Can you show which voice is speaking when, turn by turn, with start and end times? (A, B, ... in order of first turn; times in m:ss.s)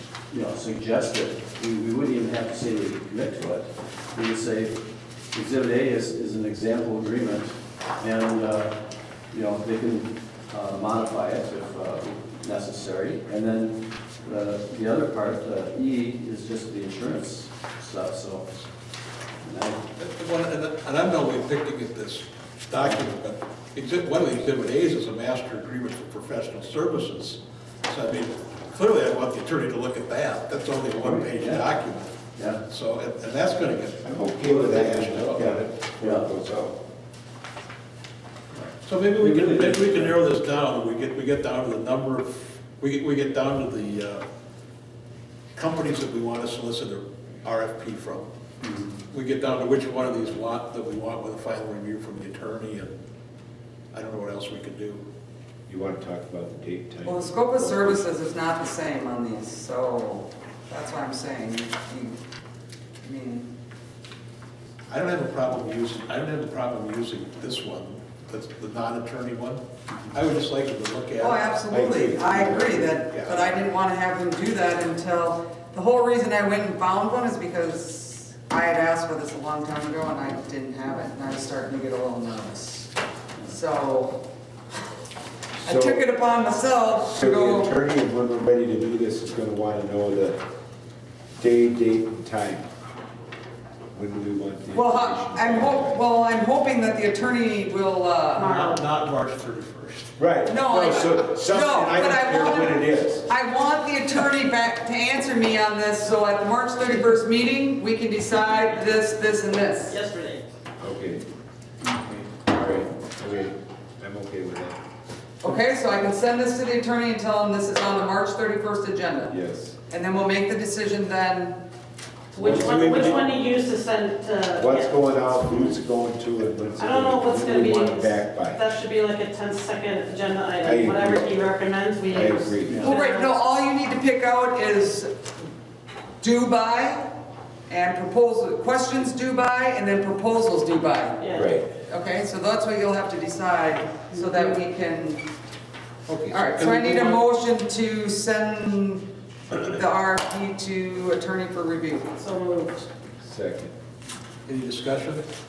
0:00.3-0:08.8 A
0:09.3-0:18.7 A
0:19.4-0:19.8 A
0:20.0-0:35.6 B
0:31.0-0:31.6 A
0:32.4-0:32.6 A
0:34.0-0:36.8 C
0:36.0-0:36.3 A
0:38.8-0:44.2 B
0:39.2-0:40.1 A
0:45.5-0:48.3 B
0:49.1-0:52.9 B
0:53.9-0:55.0 B
0:55.7-0:58.1 C
0:57.0-1:02.2 D
1:03.0-1:03.4 D
1:04.9-1:09.6 B
1:10.1-1:11.4 B
1:11.2-1:22.9 D
1:11.7-1:13.0 C
1:13.1-1:13.4 B
1:23.4-1:24.2 D
1:25.6-1:26.0 C
1:25.6-1:27.7 D
1:27.1-1:30.4 C
1:31.4-1:32.6 C
1:33.9-1:36.0 C
1:34.7-1:38.6 D
1:38.4-1:38.8 E
1:38.4-1:40.1 B
1:40.2-1:43.3 C
1:40.4-1:50.0 D
1:49.9-1:50.4 E
1:50.8-1:51.2 C
1:52.3-1:54.8 C
1:55.4-1:59.3 D
1:59.3-1:59.8 C
1:59.9-2:01.6 D
2:02.3-2:05.0 E
2:02.4-2:03.0 C
2:02.4-2:03.2 B
2:04.5-2:08.7 C
2:06.8-2:13.3 E
2:10.6-2:11.2 C
2:12.1-2:12.9 C
2:12.8-2:15.2 D
2:16.2-2:17.1 D
2:17.7-2:21.3 D
2:21.2-2:21.6 E
2:21.3-2:21.7 C
2:21.8-2:25.2 D
2:24.1-2:24.6 E
2:26.1-2:27.2 B
2:26.3-2:32.1 D
2:32.2-2:32.8 E
2:33.2-2:33.7 C
2:34.4-2:35.2 B